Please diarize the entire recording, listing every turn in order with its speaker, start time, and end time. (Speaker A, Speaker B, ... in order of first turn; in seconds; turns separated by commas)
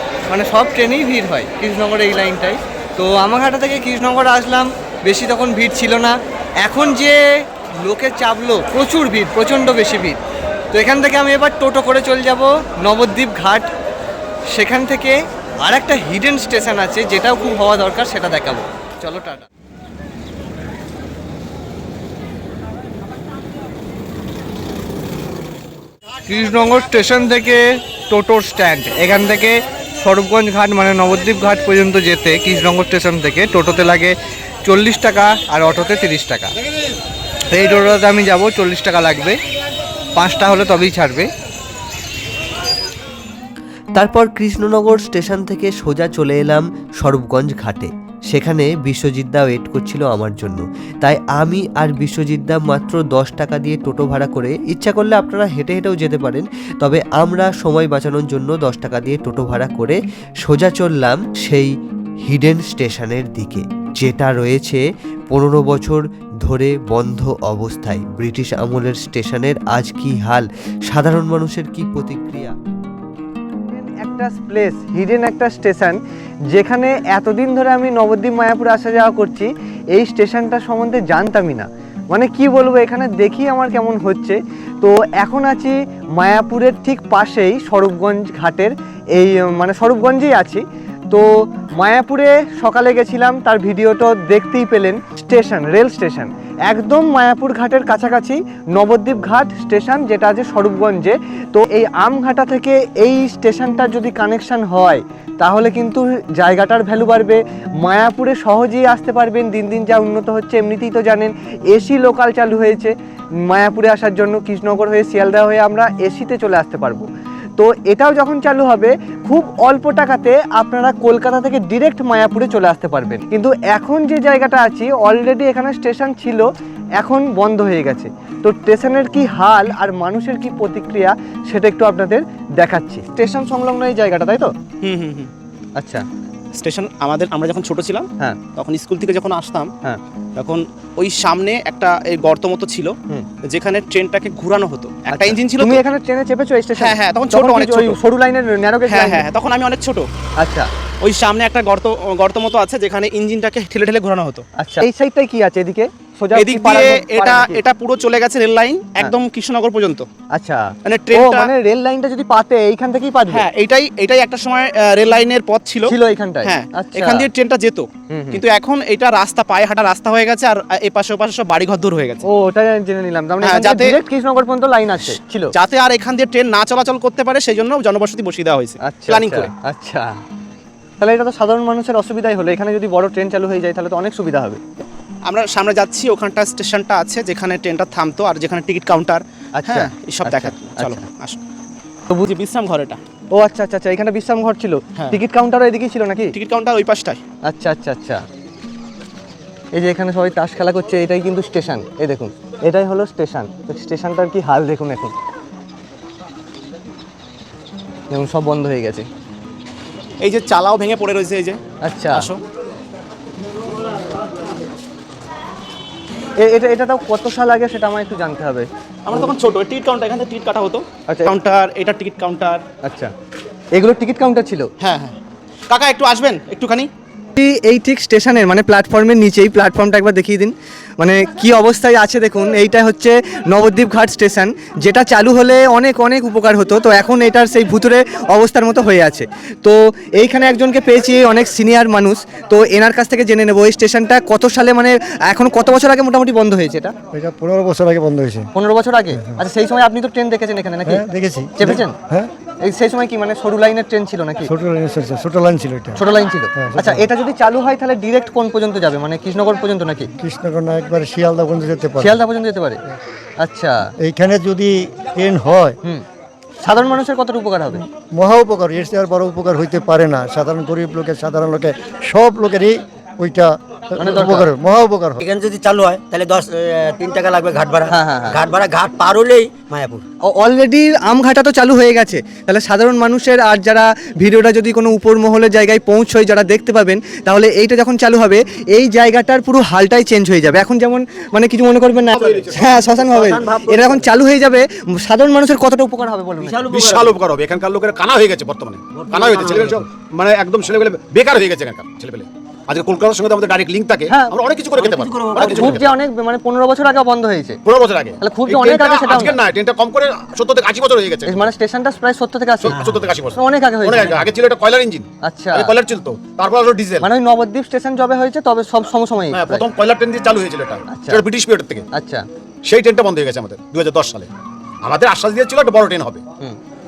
Speaker A: 0.3-7.2, Speaker A: 7.8-10.2, Speaker A: 10.7-13.7, Speaker A: 14.5-19.5, Speaker A: 26.3-36.5, Speaker A: 37.5-39.4, Speaker A: 40.1-41.3, Speaker B: 44.0-61.7, Speaker B: 62.3-72.5, Speaker A: 73.7-76.0, Speaker A: 76.5-112.9, Speaker A: 113.5-117.1, Speaker A: 117.6-126.5, Speaker A: 127.0-134.5, Speaker C: 134.8-135.3, Speaker A: 135.8-136.1, Speaker C: 136.5-139.7, Speaker C: 140.4-145.8, Speaker A: 145.1-149.2, Speaker C: 146.8-148.0, Speaker C: 148.9-150.1, Speaker A: 150.4-150.7, Speaker C: 151.0-154.4, Speaker A: 154.6-157.6, Speaker C: 156.3-160.1, Speaker A: 160.3-163.5, Speaker C: 160.8-161.5, Speaker C: 163.3-172.2, Speaker A: 165.8-167.3, Speaker A: 168.1-168.4, Speaker A: 172.2-175.5, Speaker C: 173.4-174.0, Speaker C: 175.0-179.5, Speaker A: 178.8-180.1, Speaker A: 181.0-184.6, Speaker C: 185.3-191.4, Speaker A: 189.6-191.0, Speaker C: 192.2-193.0, Speaker A: 193.3-196.3, Speaker C: 196.3-197.2, Speaker A: 197.5-198.2, Speaker A: 199.7-205.1, Speaker A: 208.1-209.1, Speaker C: 210.2-212.4, Speaker A: 211.8-212.3, Speaker A: 216.4-219.3, Speaker C: 219.1-222.7, Speaker A: 221.1-221.3, Speaker A: 222.8-223.1, Speaker A: 223.7-224.7, Speaker C: 224.8-225.2, Speaker C: 225.7-226.9, Speaker A: 227.4-246.9, Speaker D: 247.1-248.5, Speaker A: 248.6-252.0, Speaker D: 250.9-252.3, Speaker A: 252.6-254.5, Speaker D: 254.5-256.0, Speaker A: 256.0-260.1, Speaker D: 256.6-257.0, Speaker D: 260.2-262.2, Speaker A: 262.0-262.8, Speaker A: 263.4-263.8, Speaker D: 264.0-265.8, Speaker A: 266.6-267.8, Speaker D: 268.1-275.2, Speaker A: 274.0-274.5, Speaker E: 275.2-280.0, Speaker A: 277.9-278.4, Speaker A: 280.3-296.6, Speaker F: 292.1-292.9, Speaker E: 292.1-294.1, Speaker E: 296.4-297.2, Speaker F: 296.7-305.9, Speaker E: 298.9-299.9, Speaker A: 304.1-304.4, Speaker E: 304.7-305.9, Speaker A: 305.4-307.6, Speaker F: 307.6-311.5, Speaker A: 308.2-309.4, Speaker A: 311.3-312.8, Speaker F: 312.6-317.1, Speaker E: 312.7-313.3, Speaker A: 313.3-314.3, Speaker A: 315.2-315.7, Speaker A: 317.0-319.6, Speaker F: 319.3-321.9, Speaker A: 320.9-321.2, Speaker A: 321.9-322.2, Speaker F: 322.7-324.3, Speaker F: 324.8-326.2